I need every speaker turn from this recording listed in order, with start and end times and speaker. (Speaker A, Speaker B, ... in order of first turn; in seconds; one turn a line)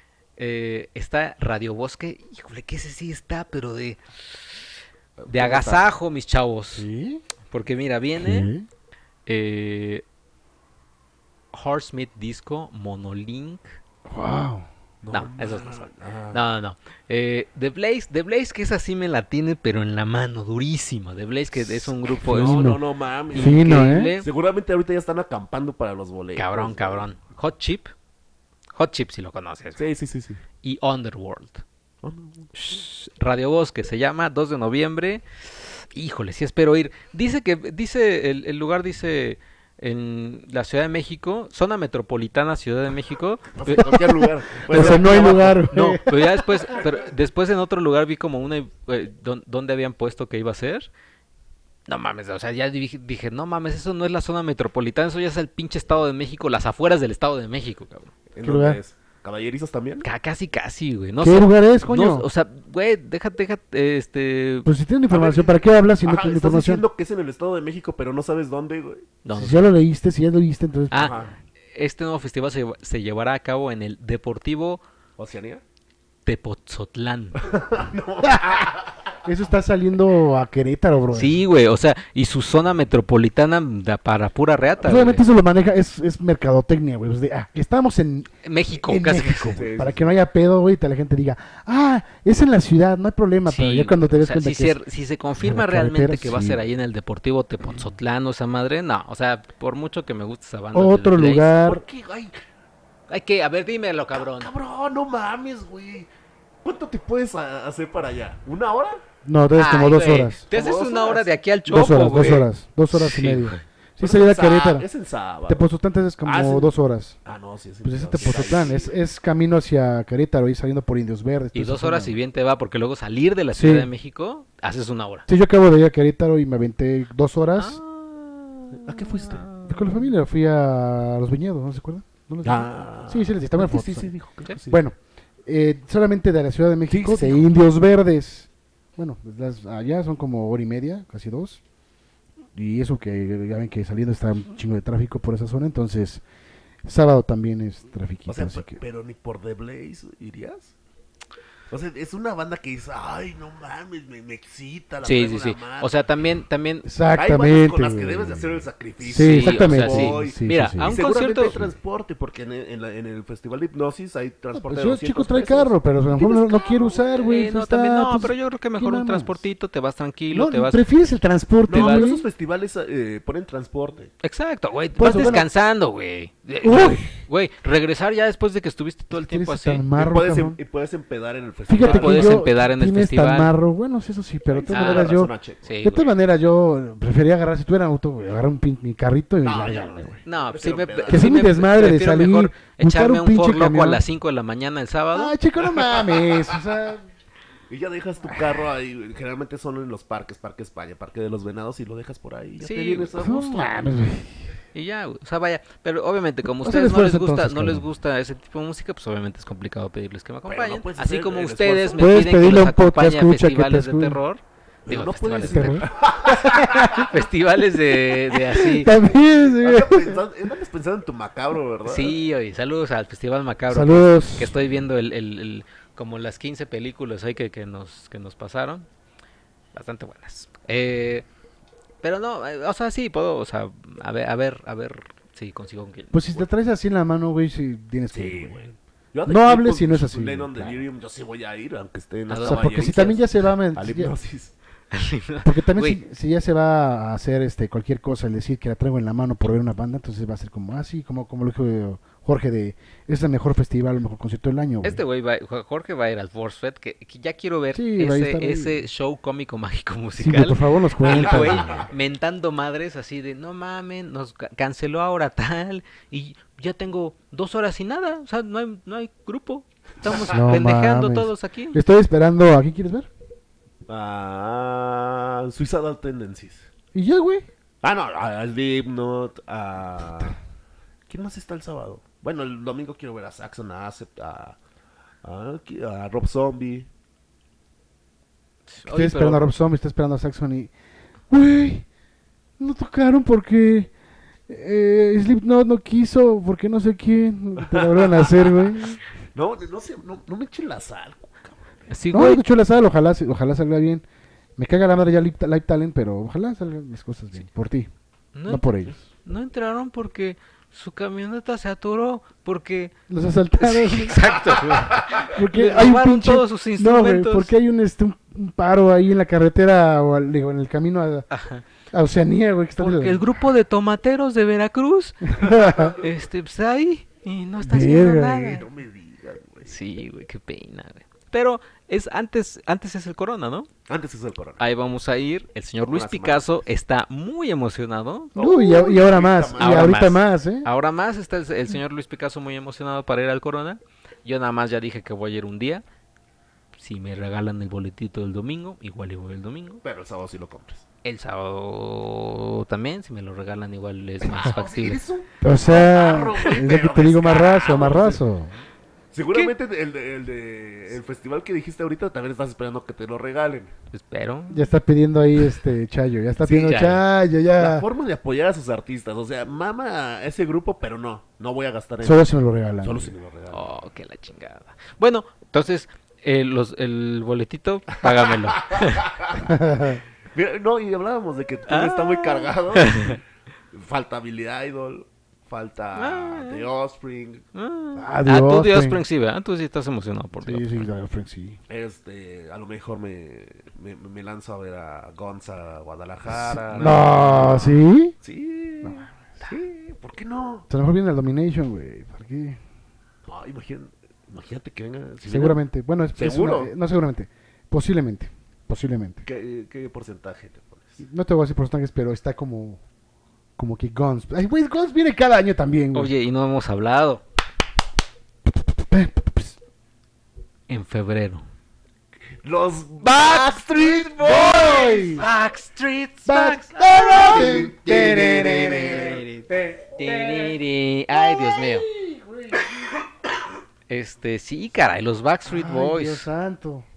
Speaker A: 0.4-4.6
Speaker B: 5.2-5.9
Speaker A: 5.3-6.9
Speaker C: 6.8-7.2
Speaker A: 7.5-8.5
Speaker C: 8.2-8.7
Speaker A: 9.3-10.0
Speaker A: 11.5-13.7
Speaker C: 14.1-14.7
Speaker B: 15.0-16.4
Speaker A: 15.1-22.7
Speaker C: 22.1-22.8
Speaker B: 22.3-27.1
Speaker C: 23.3-24.1
Speaker A: 23.3-24.3
Speaker A: 26.4-27.9
Speaker A: 28.8-29.8
Speaker B: 29.8-30.4
Speaker A: 30.6-31.6
Speaker B: 32.0-32.5
Speaker A: 32.5-44.0
Speaker B: 43.5-45.6
Speaker C: 44.7-46.4
Speaker A: 44.7-50.9
Speaker A: 51.9-58.1
Speaker B: 58.3-60.1
Speaker C: 58.4-58.8
Speaker A: 60.0-64.7
Speaker C: 61.2-62.3
Speaker C: 64.7-66.8
Speaker B: 65.1-69.1
Speaker A: 69.2-69.7
Speaker C: 69.3-71.2
Speaker A: 70.9-71.2
Speaker B: 71.0-71.3
Speaker A: 71.7-74.8
Speaker B: 75.2-75.6
Speaker A: 76.3-77.4
Speaker B: 77.4-78.9
Speaker C: 78.3-78.6
Speaker C: 79.2-81.4
Speaker A: 81.1-85.3
Speaker C: 84.8-94.8
Speaker A: 88.4-89.6
Speaker B: 89.5-90.2
Speaker A: 93.5-101.6
Speaker C: 95.4-96.6
Speaker C: 100.7-101.8
Speaker B: 101.6-102.4
Speaker A: 103.1-104.5
Speaker B: 104.1-106.1
Speaker B: 106.6-109.0
Speaker C: 109.2-110.4
Speaker A: 109.5-113.6
Speaker B: 110.5-112.5
Speaker C: 111.7-114.9
Speaker B: 114.0-115.7
Speaker C: 115.5-117.2
Speaker B: 116.2-116.7
Speaker B: 117.2-119.0
Speaker C: 117.8-122.2
Speaker A: 118.2-118.5
Speaker A: 121.5-125.3
Speaker C: 123.5-123.9
Speaker C: 125.3-127.8
Speaker A: 127.6-129.9
Speaker B: 128.8-129.4
Speaker C: 129.7-134.1
Speaker B: 132.4-134.8
Speaker C: 134.7-141.6
Speaker B: 136.9-137.5
Speaker C: 142.6-146.2
Speaker C: 146.8-148.8
Speaker B: 148.3-150.7
Speaker B: 151.7-155.9
Speaker A: 155.0-156.9
Speaker C: 156.8-161.0
Speaker B: 157.1-167.0
Speaker A: 159.2-161.6
Speaker C: 164.5-169.4
Speaker A: 167.3-170.8
Speaker C: 170.3-172.3
Speaker B: 171.7-174.1
Speaker A: 171.7-172.1
Speaker A: 174.2-179.8
Speaker C: 175.0-175.5
Speaker C: 176.6-177.1
Speaker C: 179.1-180.6
Speaker B: 179.9-182.5
Speaker C: 181.7-190.2
Speaker A: 181.8-183.5
Speaker B: 184.5-185.7
Speaker A: 184.7-185.1
Speaker A: 185.6-186.1
Speaker B: 189.4-191.3
Speaker A: 190.2-195.4
Speaker C: 191.1-194.0
Speaker C: 195.1-197.1
Speaker B: 195.7-196.6
Speaker B: 197.7-203.9
Speaker C: 198.3-198.6
Speaker A: 202.6-203.2
Speaker C: 203.2-204.6
Speaker A: 204.7-215.9
Speaker C: 206.5-207.9
Speaker B: 210.5-212.2
Speaker C: 212.0-214.2
Speaker B: 214.9-217.1
Speaker C: 215.5-217.1
Speaker A: 216.5-218.9
Speaker C: 218.5-220.2
Speaker B: 219.4-222.2
Speaker A: 221.9-228.9
Speaker C: 223.7-224.5
Speaker A: 229.7-231.3
Speaker A: 232.0-236.4
Speaker C: 236.1-238.7
Speaker B: 238.1-244.5
Speaker C: 239.3-240.8
Speaker A: 242.3-243.1
Speaker C: 242.4-244.1
Speaker A: 244.9-246.0
Speaker C: 245.4-255.0
Speaker A: 254.8-271.8
Speaker C: 257.7-258.8
Speaker C: 260.2-261.9
Speaker B: 261.1-261.9
Speaker C: 270.2-273.1
Speaker B: 273.9-276.7
Speaker C: 276.9-277.5
Speaker B: 277.8-280.4
Speaker B: 281.1-284.6
Speaker B: 285.2-286.9
Speaker A: 288.7-289.5
Speaker C: 288.9-290.7
Speaker C: 291.3-291.9
Speaker C: 292.6-293.9
Speaker C: 294.5-299.0
Speaker B: 297.6-298.8
Speaker B: 299.4-301.6
Speaker A: 301.9-302.4
Speaker C: 302.1-304.0
Speaker C: 304.6-307.9
Speaker A: 308.4-308.7
Speaker C: 308.5-309.0
Speaker A: 309.2-312.9
Speaker C: 313.1-321.3
Speaker A: 313.6-317.5
Speaker A: 321.3-321.6
Speaker C: 321.9-323.3
Speaker A: 322.8-328.6
Speaker C: 325.3-325.9
Speaker C: 327.6-328.6
Speaker B: 328.4-329.7
Speaker A: 329.6-333.7
Speaker B: 333.9-334.6
Speaker A: 334.6-338.3
Speaker B: 335.9-336.5
Speaker B: 338.4-340.0
Speaker C: 338.4-340.7
Speaker A: 339.6-345.8
Speaker A: 346.8-349.8
Speaker B: 349.8-350.8
Speaker A: 351.0-355.0
Speaker B: 354.3-358.2
Speaker C: 355.4-358.5
Speaker B: 359.1-363.7
Speaker A: 363.9-364.7
Speaker C: 364.5-367.9
Speaker A: 366.4-367.0
Speaker B: 367.6-372.3
Speaker C: 372.0-373.1
Speaker B: 372.8-373.7
Speaker A: 373.5-379.1
Speaker B: 378.2-379.4
Speaker C: 379.4-380.0
Speaker B: 380.3-383.2
Speaker A: 381.7-383.2
Speaker B: 383.7-387.4
Speaker A: 385.9-386.6
Speaker A: 387.5-390.8
Speaker C: 388.0-389.0
Speaker C: 390.4-391.6
Speaker B: 391.7-397.7
Speaker C: 396.3-398.2
Speaker A: 396.7-397.7
Speaker B: 398.2-400.7
Speaker C: 400.7-402.6
Speaker B: 403.3-405.6
Speaker C: 405.2-409.2
Speaker B: 406.2-406.7
Speaker B: 409.2-411.0
Speaker C: 411.0-412.8
Speaker C: 413.6-416.1
Speaker A: 415.9-417.2
Speaker C: 418.5-419.6
Speaker A: 420.7-421.4
Speaker B: 422.4-425.2
Speaker A: 423.1-423.5
Speaker C: 424.2-425.3
Speaker A: 425.1-427.7
Speaker C: 426.3-430.6
Speaker B: 426.9-429.2
Speaker A: 428.6-431.9
Speaker C: 431.1-433.0
Speaker A: 433.9-436.3
Speaker C: 435.5-436.9